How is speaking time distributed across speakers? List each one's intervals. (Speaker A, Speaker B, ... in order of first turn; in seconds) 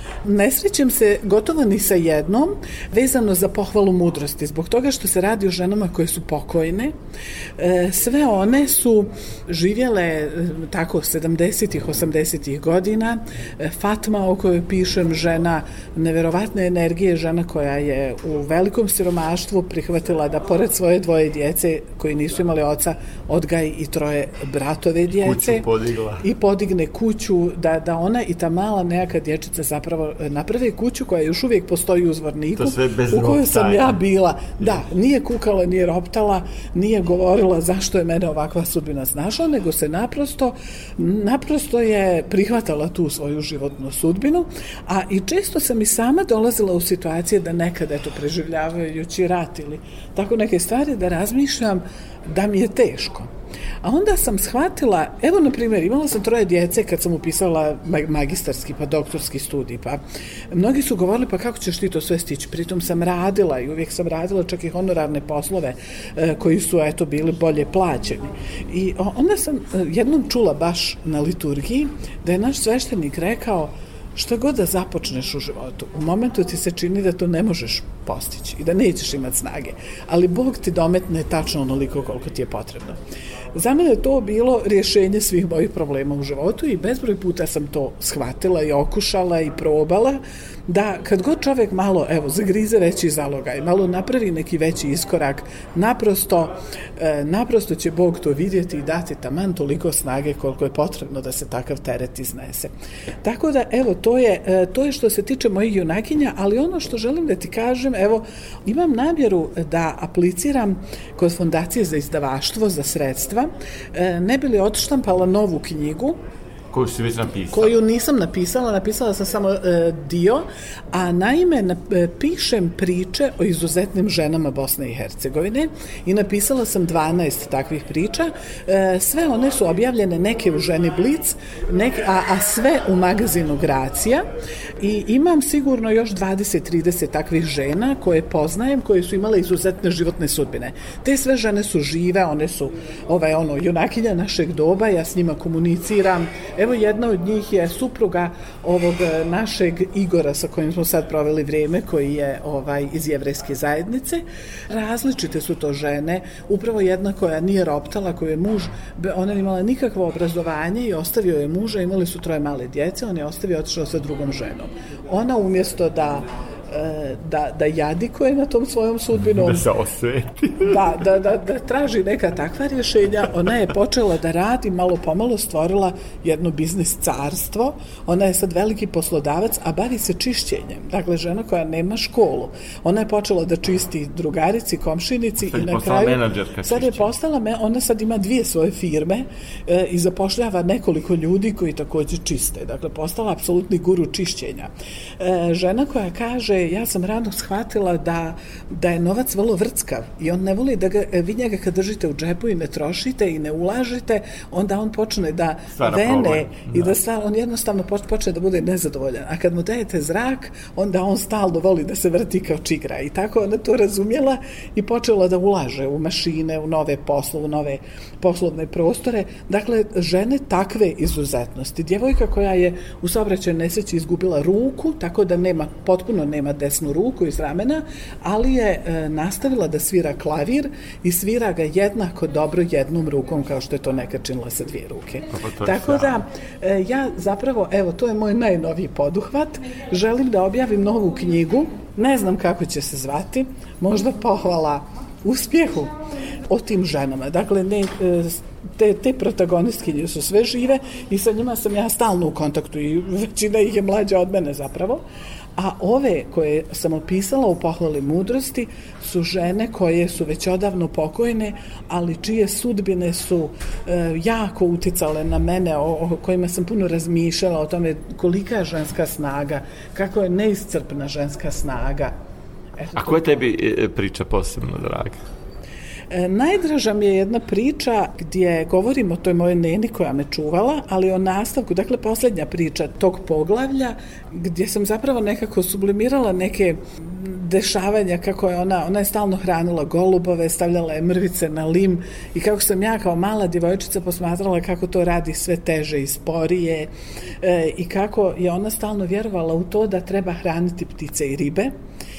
Speaker A: 0.2-6.9, 7.6-25.7, 26.2-53.3, 53.8-83.0, 83.5-102.7, 103.2-116.2, 117.5-134.2, 134.8-169.7, 170.6-245.9, 246.5-255.0, 255.6-272.1, 272.8-273.4, 276.1-296.9, 297.4-301.7
Speaker B: 25.1-26.3, 32.5-34.0, 116.7-117.8, 169.2-171.0, 185.4-187.1, 205.7-206.9, 235.3-236.2, 272.9-275.2